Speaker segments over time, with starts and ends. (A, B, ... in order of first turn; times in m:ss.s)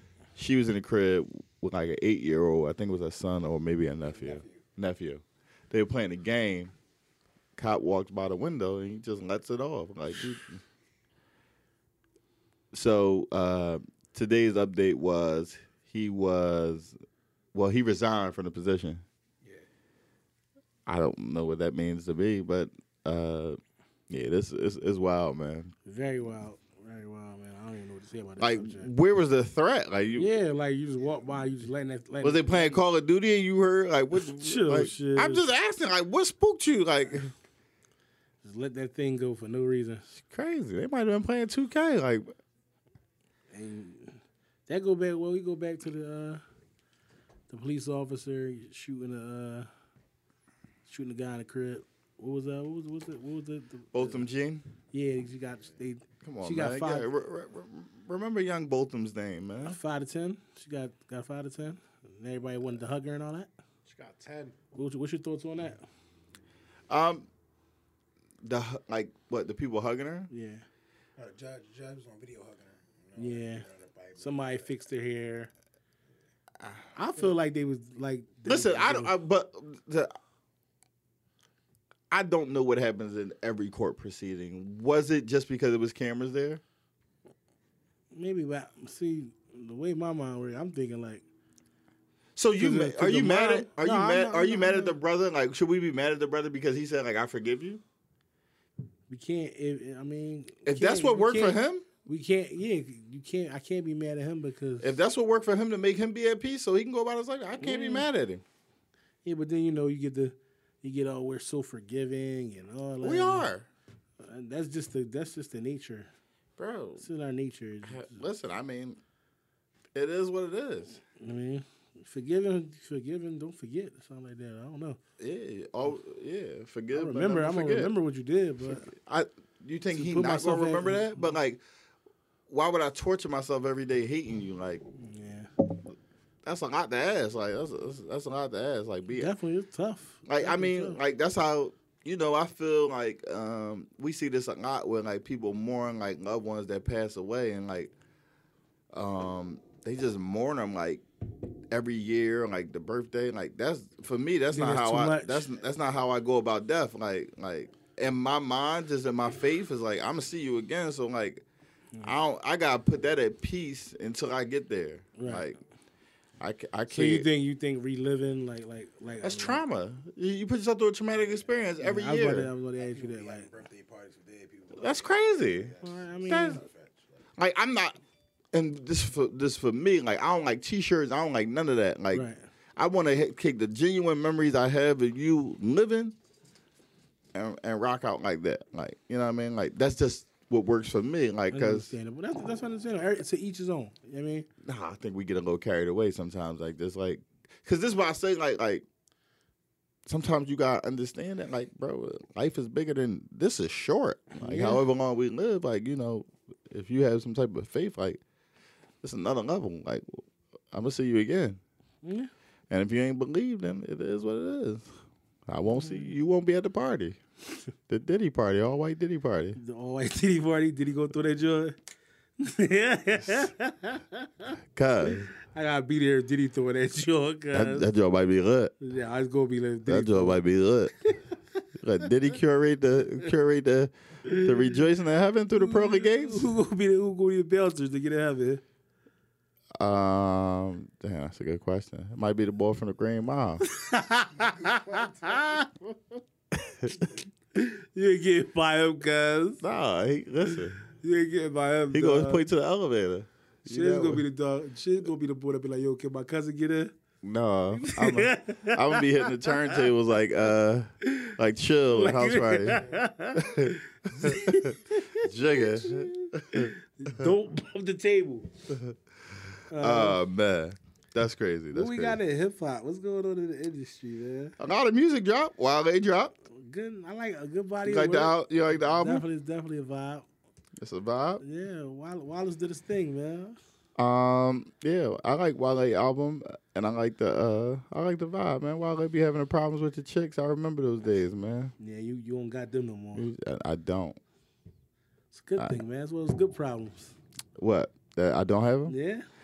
0:00.4-0:06.7 A
0:04.0-0:04.7 B
0:07.6-0:10.6 A
0:12.7-0:17.0 A
0:17.5-0:19.0 A
0:20.9-0:25.7 A
0:25.9-0:28.9 C
0:28.4-0:30.3 A
0:30.1-0:32.8 C
0:32.2-0:37.3 A
0:34.2-0:35.4 C
0:38.4-0:40.0 C
0:40.2-0:42.3 A
0:43.5-0:46.4 C
0:47.5-0:49.7 C
0:50.9-0:54.2 C
0:53.9-0:54.6 A
0:54.9-0:57.1 C
0:56.2-0:59.8 A
0:59.6-1:03.5 C
1:03.9-1:04.6 B
1:04.8-1:05.8 C
1:06.9-1:07.3 A
1:08.4-1:10.3 A
1:10.3-1:10.6 C
1:11.2-1:14.7 B
1:13.2-1:13.6 C
1:14.2-1:15.5 C
1:17.0-1:19.1 C
1:18.4-1:20.1 A
1:22.1-1:26.6 A
1:28.1-1:31.2 C
1:32.4-1:37.8 A
1:32.6-1:35.0 C
1:39.1-1:44.9 C
1:40.6-1:41.8 A
1:44.8-1:48.4 A
1:47.6-1:48.1 C
1:49.2-1:53.5 C
1:53.0-1:53.7 A
1:54.2-1:56.1 C
1:56.6-1:57.0 A
1:57.0-1:58.2 C
1:57.8-1:59.0 A
1:59.9-2:01.0 A
2:01.2-2:05.0 C
2:05.2-2:07.9 A
2:06.9-2:08.9 C
2:08.6-2:11.6 A
2:09.9-2:11.2 C
2:12.5-2:14.8 A
2:15.0-2:15.5 C
2:16.4-2:19.3 A
2:19.1-2:21.0 C
2:20.3-2:27.9 A
2:28.9-2:31.0 A
2:31.7-2:41.4 A
2:34.5-2:35.5 C
2:42.0-2:45.6 A
2:45.2-2:45.5 C
2:46.4-2:47.3 A
2:46.9-2:49.6 C
2:49.2-2:52.5 A
2:51.8-2:53.5 C
2:52.8-2:57.2 B
2:54.8-2:55.7 A
2:55.8-2:56.6 C
2:56.2-2:56.6 A
2:57.4-2:58.0 A
2:58.5-3:02.2 A
3:02.1-3:02.4 C
3:02.8-3:06.2 A
3:07.3-3:11.9 A
3:11.5-3:14.5 C
3:14.6-3:18.8 A
3:20.1-3:28.2 A
3:24.4-3:24.8 C
3:29.0-3:31.6 A
3:32.0-3:32.3 C
3:32.7-3:34.9 A
3:35.5-3:37.2 A
3:35.7-3:36.1 C
3:37.9-3:39.6 A
3:39.6-3:41.8 C
3:42.4-3:44.5 C
3:44.8-3:45.3 A
3:45.0-3:47.9 C
3:47.5-3:48.7 A
3:48.8-3:50.4 C
3:49.9-3:50.9 A
3:51.8-3:56.5 A
3:54.3-3:54.8 C
3:55.6-3:58.6 C
3:59.8-4:03.6 A
4:03.6-4:05.7 C
4:04.4-4:05.8 B
4:06.5-4:07.0 A
4:07.6-4:09.6 C
4:09.6-4:10.8 A
4:11.0-4:12.4 C
4:11.9-4:14.2 A
4:13.7-4:16.9 C
4:17.2-4:22.8 A
4:17.7-4:19.7 C
4:21.1-4:21.3 C
4:21.9-4:28.5 C
4:22.7-4:23.1 B
4:23.4-4:26.7 A
4:28.7-4:32.2 A
4:29.7-4:30.2 C
4:31.7-4:34.6 C
4:34.6-4:36.3 A
4:36.6-4:40.3 C
4:37.8-4:39.2 A
4:40.8-4:41.4 A
4:41.4-4:43.6 C
4:44.0-4:51.7 A
4:51.8-4:53.3 C
4:53.2-4:54.2 A
4:55.3-4:57.1 C
4:57.6-4:59.0 A
4:58.9-4:59.2 C